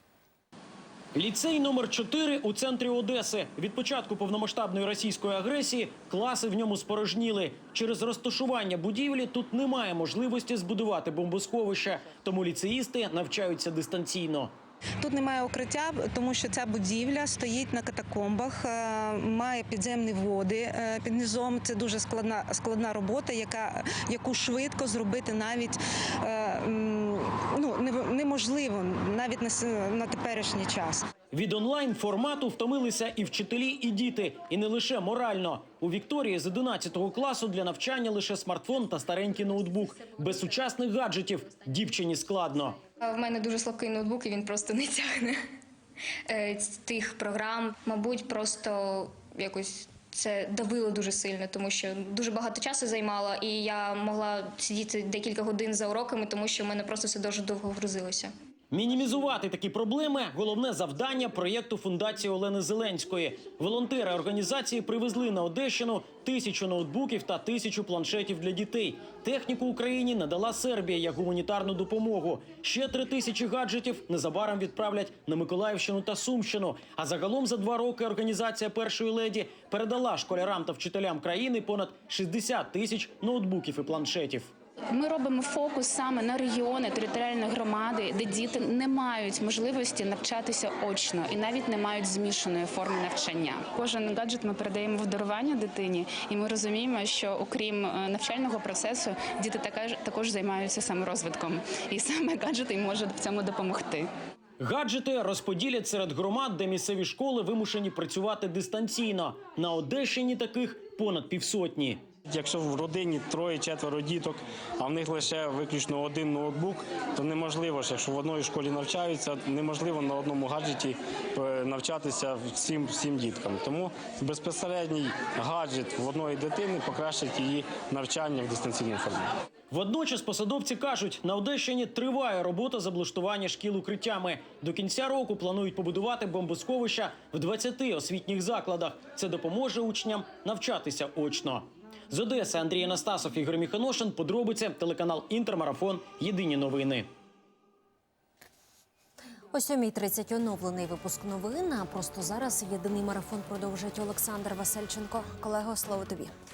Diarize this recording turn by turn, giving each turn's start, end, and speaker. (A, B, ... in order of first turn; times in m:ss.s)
0:01.1-0:14.5 A
0:15.0-0:31.0 B
0:31.3-0:42.8 A
0:43.0-0:45.4 C
0:46.3-0:58.3 C
0:58.7-1:24.5 A
1:24.9-1:44.1 D
1:44.6-1:52.0 A
1:52.3-2:09.3 E
2:09.7-2:27.0 A
2:29.5-2:36.3 F